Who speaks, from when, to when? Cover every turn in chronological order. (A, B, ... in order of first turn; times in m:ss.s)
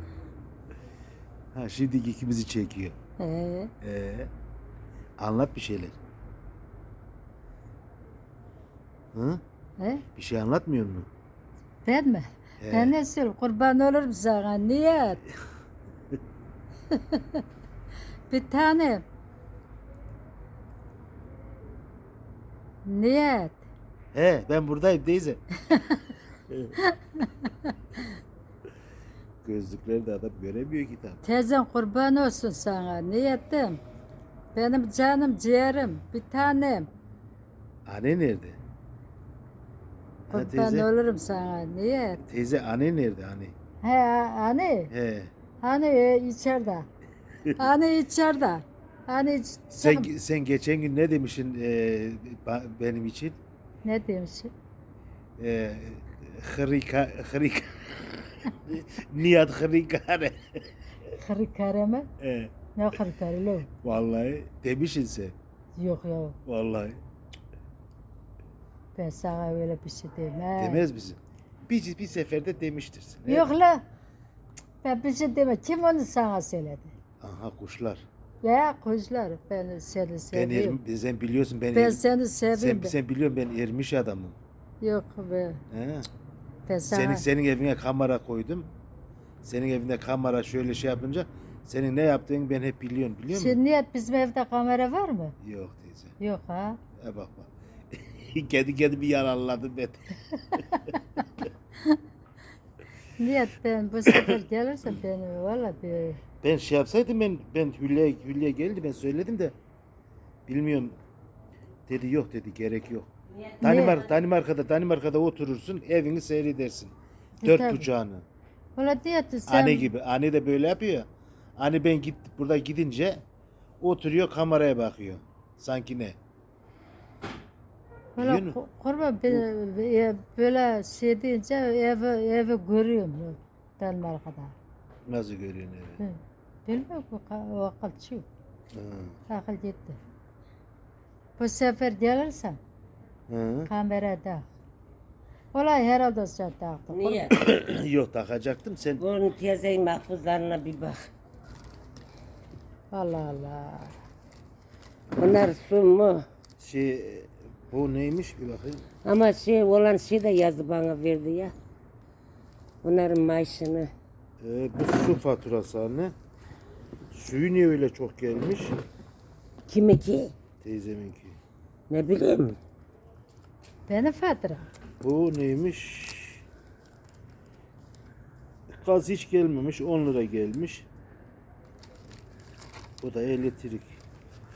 0:01.6-0:03.0 A
0:03.2-0:03.7 B
0:03.8-0:04.3 A
0:05.2-0:06.0 A
0:09.1-0:09.4 A
0:09.8-0:10.0 B
0:10.2-0:11.1 A
0:11.8-0:15.2 B
0:12.6-0:13.0 A
0:16.9-0:17.4 B
0:18.3-0:19.0 B
0:22.8-0:23.6 B
0:24.1-0:25.4 A
0:25.7-0:26.0 B
0:26.5-0:26.8 A
0:26.8-0:27.7 B
0:29.4-0:31.2 A
0:31.2-0:33.8 B
0:34.5-0:36.9 B
0:37.9-0:38.6 A
0:40.3-0:40.9 A
0:40.3-0:42.2 B
0:42.2-0:43.5 A
0:43.8-0:44.9 B
0:44.9-0:45.3 A
0:45.6-0:46.9 B
0:47.6-0:50.1 B
0:49.7-0:53.4 A
0:53.8-0:54.5 B
0:55.4-1:00.6 A
1:01.1-1:02.1 B
1:02.2-1:02.5 A
1:02.8-1:03.7 B
1:03.8-1:05.4 A
1:05.8-1:06.4 B
1:06.5-1:07.0 A
1:09.0-1:10.8 B
1:10.6-1:13.5 A
1:13.3-1:13.8 B
1:14.8-1:16.9 B
1:17.2-1:18.0 A
1:18.4-1:20.8 B
1:20.3-1:22.0 A
1:21.7-1:23.0 B
1:22.5-1:24.4 A
1:24.8-1:25.6 B
1:25.7-1:26.1 A
1:26.7-1:27.2 B
1:26.9-1:28.7 A
1:29.4-1:33.6 A
1:33.3-1:35.4 B
1:35.4-1:36.2 A
1:36.2-1:36.8 B
1:37.0-1:40.6 A
1:40.7-1:41.0 B
1:43.2-1:46.2 B
1:44.1-1:44.3 A
1:46.4-1:49.5 A
1:50.5-1:51.0 A
1:51.9-1:53.1 A
1:53.6-1:58.2 A
1:53.6-1:54.0 B
1:57.4-1:57.9 B
1:58.8-1:59.9 B
1:59.5-2:01.1 A
2:01.6-2:03.2 A
2:03.8-2:06.2 A
2:08.2-2:14.6 B
2:08.2-2:08.6 A
2:15.1-2:16.0 A
2:16.0-2:18.3 B
2:18.7-2:19.2 A
2:19.3-2:20.0 B
2:21.4-2:22.6 B
2:23.3-2:23.7 A
2:23.7-2:24.5 B
2:25.5-2:27.3 B
2:26.9-2:27.4 C
2:27.3-2:29.0 A
2:29.0-2:31.0 C
2:32.9-2:33.9 B
2:35.1-2:36.2 C
2:36.6-2:38.9 A
2:39.0-2:41.5 C
2:42.8-2:43.9 C
2:44.4-2:46.1 A
2:47.1-2:48.8 A
2:49.7-2:50.3 C
2:50.6-2:51.4 A
2:51.9-2:52.6 C
2:53.9-2:54.7 B
2:55.0-2:56.4 A
2:58.8-3:00.9 A
3:03.0-3:04.0 A